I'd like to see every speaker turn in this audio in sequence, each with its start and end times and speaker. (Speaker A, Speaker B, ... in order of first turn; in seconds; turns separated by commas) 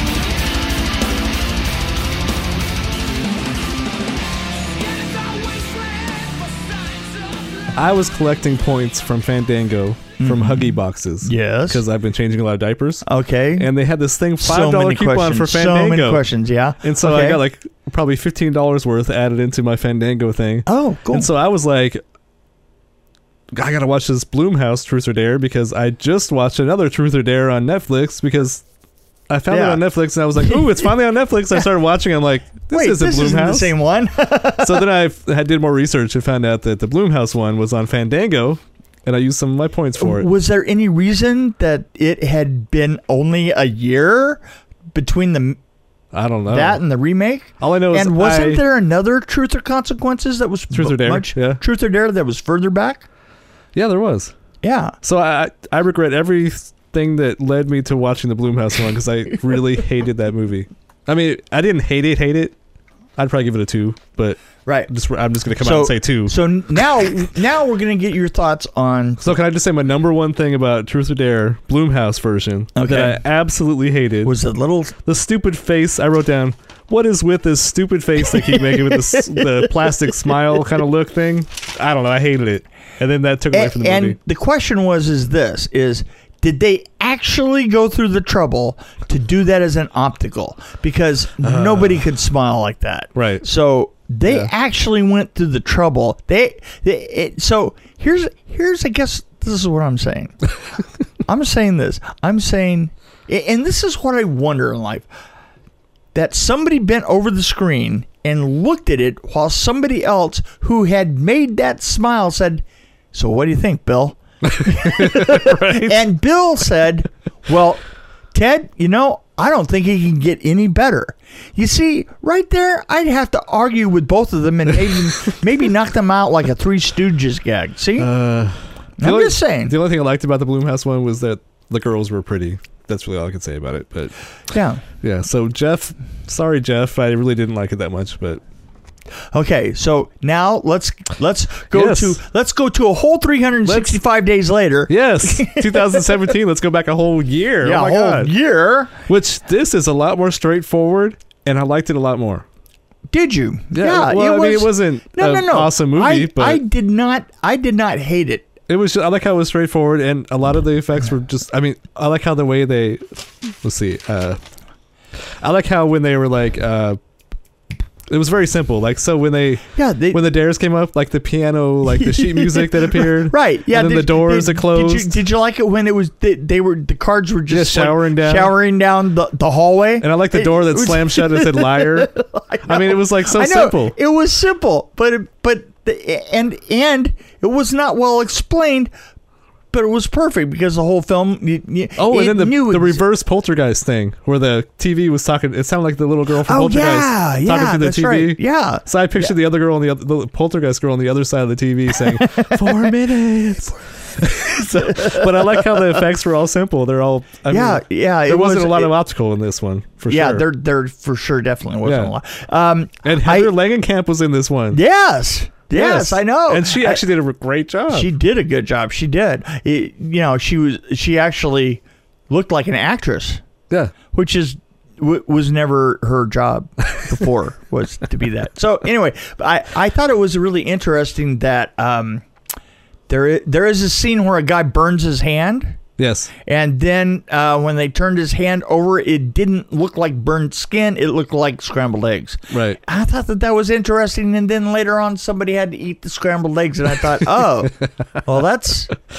Speaker A: 5.0-6.9, Speaker A: 7.7-13.0, Speaker B: 10.2-11.8, Speaker B: 13.0-13.7, Speaker A: 13.6-16.2, Speaker B: 14.4-17.4, Speaker A: 16.8-22.0, Speaker B: 20.6-21.3, Speaker A: 23.5-28.6, Speaker A: 29.3-33.7, Speaker B: 29.5-29.8, Speaker B: 30.3-30.9, Speaker B: 32.7-34.8, Speaker A: 34.6-40.3, Speaker B: 40.0-44.4, Speaker B: 44.9-45.6, Speaker A: 46.1-46.8, Speaker B: 46.5-53.0, Speaker A: 47.6-48.6, Speaker A: 50.7-51.6, Speaker A: 53.7-54.3, Speaker B: 54.6-54.9, Speaker A: 55.0-62.5, Speaker A: 63.2-66.3, Speaker B: 64.6-64.9, Speaker B: 65.6-69.3, Speaker A: 69.2-74.3, Speaker B: 72.8-73.2, Speaker B: 74.2-75.0, Speaker A: 75.0-84.2, Speaker B: 78.3-79.7, Speaker B: 83.5-100.4, Speaker A: 91.4-92.0, Speaker A: 93.2-93.4, Speaker B: 101.2-105.1, Speaker B: 106.1-117.8, Speaker A: 114.5-116.0, Speaker B: 118.3-128.1, Speaker A: 128.0-134.1, Speaker B: 129.0-129.8, Speaker B: 134.5-134.8, Speaker A: 135.0-138.4, Speaker B: 139.3-146.2, Speaker A: 141.7-142.2, Speaker A: 143.7-144.0, Speaker A: 144.9-148.3, Speaker B: 147.6-148.9, Speaker A: 149.1-152.4, Speaker B: 153.1-158.5, Speaker A: 153.7-156.6, Speaker A: 158.7-164.4, Speaker A: 165.4-167.0, Speaker A: 168.1-175.2, Speaker B: 169.7-170.2, Speaker B: 171.9-188.9, Speaker A: 177.5-178.5, Speaker A: 180.0-182.1, Speaker A: 182.6-183.9, Speaker B: 189.7-193.1, Speaker A: 192.0-210.4, Speaker B: 196.5-199.3, Speaker B: 202.0-202.9, Speaker B: 204.2-206.0, Speaker B: 207.5-208.9, Speaker B: 210.1-213.5, Speaker A: 211.8-212.1, Speaker A: 213.0-214.8, Speaker B: 214.7-217.0, Speaker A: 215.7-218.1, Speaker B: 217.9-223.4, Speaker B: 224.1-232.2, Speaker B: 233.1-235.8, Speaker A: 236.0-236.3, Speaker B: 236.5-248.9, Speaker A: 242.5-242.8